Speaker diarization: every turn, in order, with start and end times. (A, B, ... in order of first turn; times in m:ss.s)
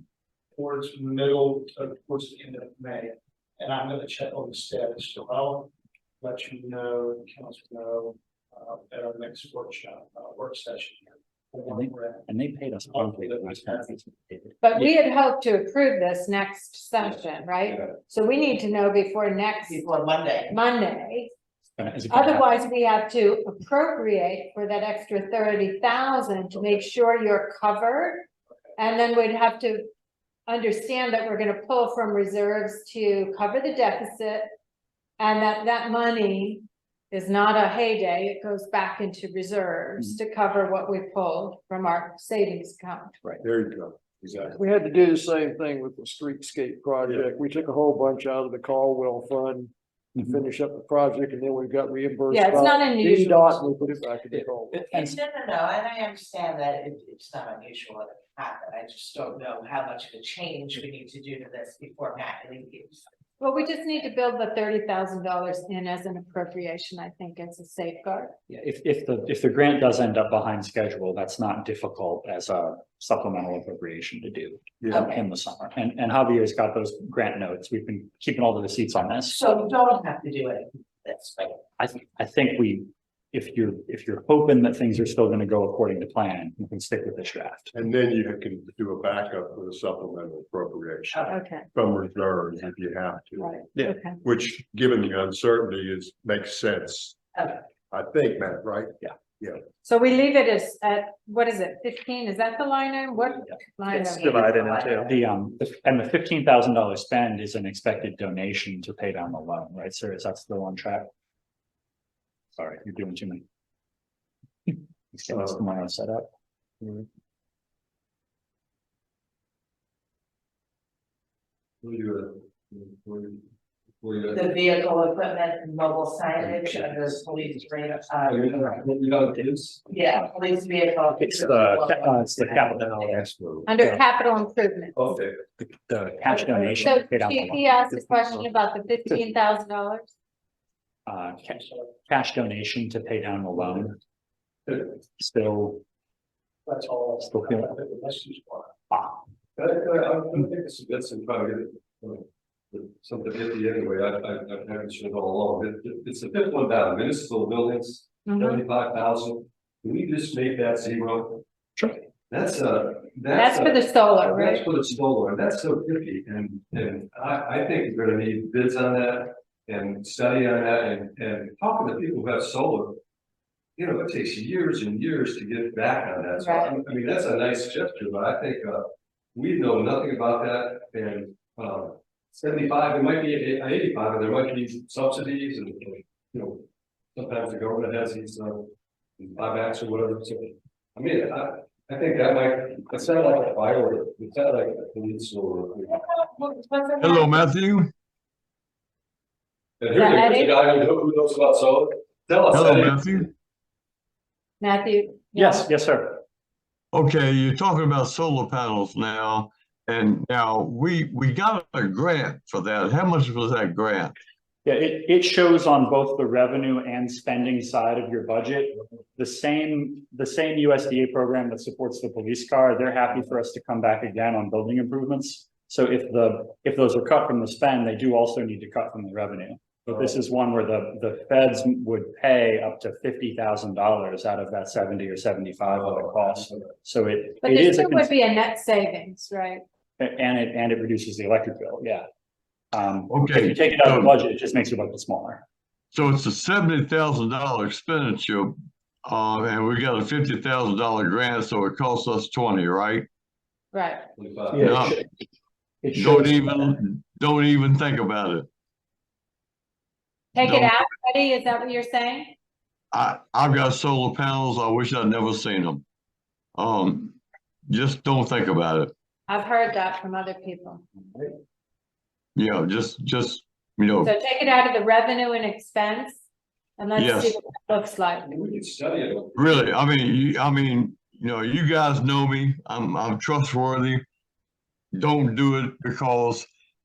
0:00.5-0:12.3 A
0:11.7-0:14.9 B
0:12.9-0:14.0 A
0:14.6-0:19.8 C
0:17.7-0:17.9 D
0:19.7-0:20.6 E
0:20.5-0:21.3 C
0:21.8-0:22.6 B
0:22.1-0:29.8 C
0:30.5-0:34.4 C
0:35.2-0:43.2 C
0:43.4-0:44.6 F
0:44.4-0:54.9 G
0:52.3-0:53.6 C
0:54.3-0:55.2 B
0:54.9-1:03.0 E
1:03.4-1:08.3 C
1:08.5-1:19.4 B
1:14.8-1:15.1 F
1:14.9-1:15.2 E
1:19.2-1:21.6 E
1:21.8-1:27.7 B
1:27.7-1:37.2 F
1:31.3-1:31.7 C
1:33.4-1:34.2 C
1:37.9-1:39.6 F
1:39.8-1:44.4 C
1:43.9-1:45.1 E
1:44.3-1:51.1 B
1:52.5-1:53.4 B
1:54.7-1:56.3 B
2:01.8-2:03.4 D
2:04.0-2:04.6 D
2:04.3-2:08.8 E
2:08.2-2:09.8 D
2:09.9-2:13.2 E
2:11.2-2:13.2 B
2:13.4-2:13.7 D
2:13.6-2:15.1 C
2:15.0-2:15.4 D
2:15.6-2:17.6 B
2:16.4-2:20.1 C
2:21.1-2:24.0 B
2:25.1-2:25.8 B
2:26.7-2:28.7 A
2:27.3-2:27.7 B
2:29.6-2:41.4 D
2:38.2-2:38.6 C
2:42.3-2:53.0 D
2:43.3-2:44.7 C
2:53.8-3:16.0 D
2:56.4-2:56.7 C
3:16.2-3:17.4 E
3:17.0-3:17.9 H
3:19.8-3:23.0 D
3:19.9-3:20.6 C
3:22.5-3:23.3 H
3:24.6-3:25.7 C
3:25.4-3:26.2 B
3:26.9-3:34.2 H
3:34.6-3:58.1 B
3:55.6-3:56.6 D
3:57.4-3:59.6 C
4:00.0-4:02.1 B
4:02.7-4:05.4 B
4:03.1-4:04.1 H
4:05.9-4:13.1 H
4:13.7-4:14.0 C
4:14.2-4:14.8 D
4:14.5-4:15.1 B
4:15.8-4:16.8 B
4:15.9-4:18.5 H
4:20.3-4:22.3 C
4:20.4-4:20.8 H
4:22.9-4:25.8 H
4:26.6-4:28.9 H
4:29.3-4:30.8 C
4:32.4-4:34.1 H
4:34.0-4:36.2 C
4:36.8-4:38.3 C
4:37.0-4:37.3 H
4:38.2-4:39.8 D
4:39.3-4:44.1 H
4:44.9-4:46.5 H